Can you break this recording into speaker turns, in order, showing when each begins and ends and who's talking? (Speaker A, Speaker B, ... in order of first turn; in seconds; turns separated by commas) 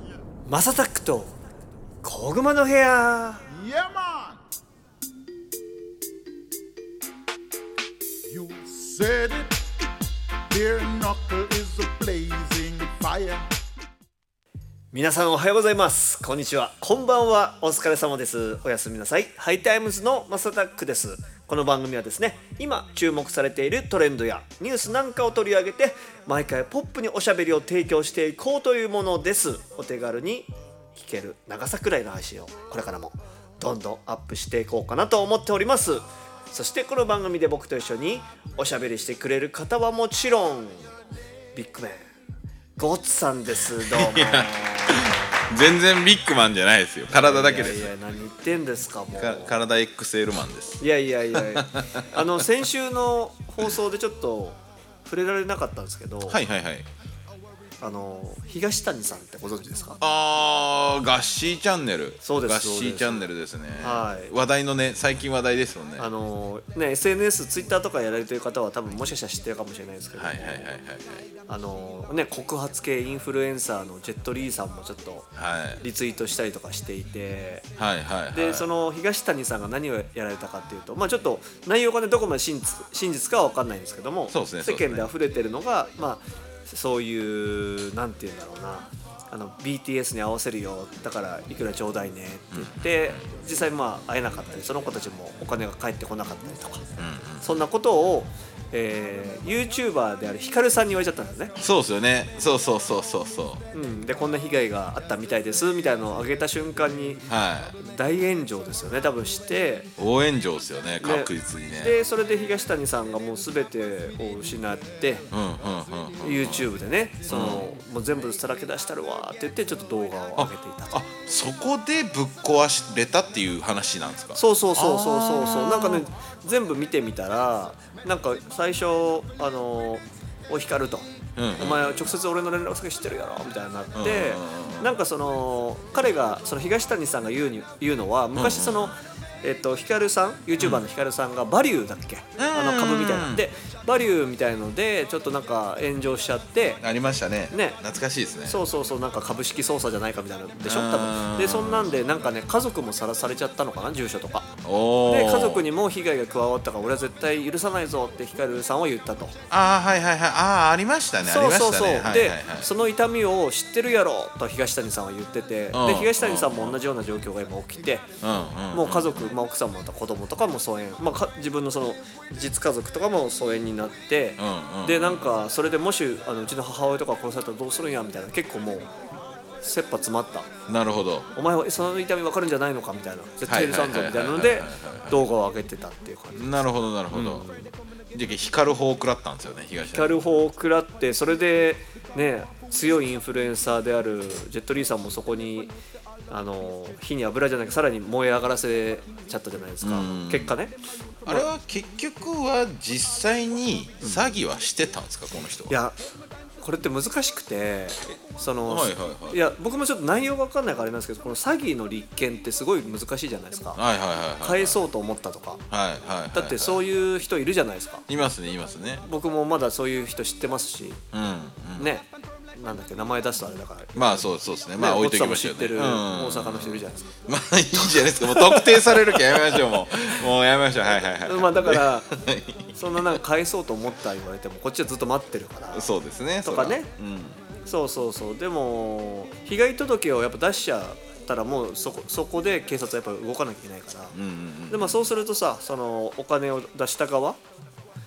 Speaker A: 0.5-1.4, Speaker A: 2.0-3.5, Speaker B: 3.7-4.3, Speaker B: 8.3-9.5, Speaker B: 10.5-13.5, Speaker A: 14.9-40.9, Speaker A: 41.5-42.1, Speaker A: 42.8-45.5, Speaker C: 43.8-47.9, Speaker A: 47.1-49.6, Speaker C: 49.2-50.8, Speaker A: 50.8-56.4, Speaker C: 51.3-52.5, Speaker C: 56.3-56.9, Speaker A: 57.8-60.0, Speaker C: 60.0-66.1, Speaker A: 62.2-64.3, Speaker A: 66.0-70.7, Speaker C: 70.2-71.3, Speaker A: 71.5-75.3, Speaker C: 75.3-75.8, Speaker A: 75.8-77.7, Speaker C: 77.8-78.7, Speaker A: 78.3-96.9, Speaker C: 84.3-85.1, Speaker C: 92.5-93.2, Speaker C: 97.0-97.6, Speaker A: 97.4-101.5, Speaker C: 101.6-103.6, Speaker A: 103.7-109.9, Speaker C: 107.3-107.8, Speaker C: 110.0-112.0, Speaker A: 111.0-115.3, Speaker C: 115.3-116.7, Speaker A: 116.2-121.0, Speaker C: 117.3-117.8, Speaker C: 120.4-126.1, Speaker A: 124.3-146.8, Speaker C: 131.4-132.1, Speaker C: 133.9-134.9, Speaker C: 138.3-139.0, Speaker C: 140.6-140.8, Speaker C: 142.4-143.4, Speaker C: 146.8-148.6, Speaker A: 147.5-147.8, Speaker A: 148.5-154.5, Speaker C: 150.6-152.2, Speaker C: 154.6-155.7, Speaker A: 155.1-159.4, Speaker C: 159.5-162.7, Speaker A: 161.2-168.1, Speaker C: 165.7-166.8, Speaker C: 168.2-169.3, Speaker A: 168.7-178.9, Speaker C: 174.4-175.3, Speaker A: 179.6-180.5, Speaker C: 180.7-181.3, Speaker A: 181.3-187.7, Speaker C: 183.5-185.3, Speaker C: 186.3-187.5, Speaker C: 188.1-190.3, Speaker A: 189.9-195.7, Speaker A: 196.3-201.5, Speaker C: 199.8-200.5, Speaker C: 201.3-205.8, Speaker A: 204.0-204.3, Speaker A: 205.7-206.0, Speaker A: 206.6-213.8, Speaker C: 208.7-209.4, Speaker C: 213.8-214.8, Speaker A: 214.4-215.6, Speaker C: 215.7-216.9, Speaker A: 216.3-218.1, Speaker C: 218.1-219.0, Speaker A: 219.0-221.0, Speaker C: 221.1-221.9, Speaker A: 221.8-227.1, Speaker C: 223.9-233.2, Speaker A: 227.9-229.8, Speaker A: 231.2-232.2, Speaker A: 232.7-235.9, Speaker C: 235.7-237.4, Speaker A: 236.4-236.9, Speaker A: 237.7-244.2, Speaker C: 244.1-245.1, Speaker A: 244.7-247.4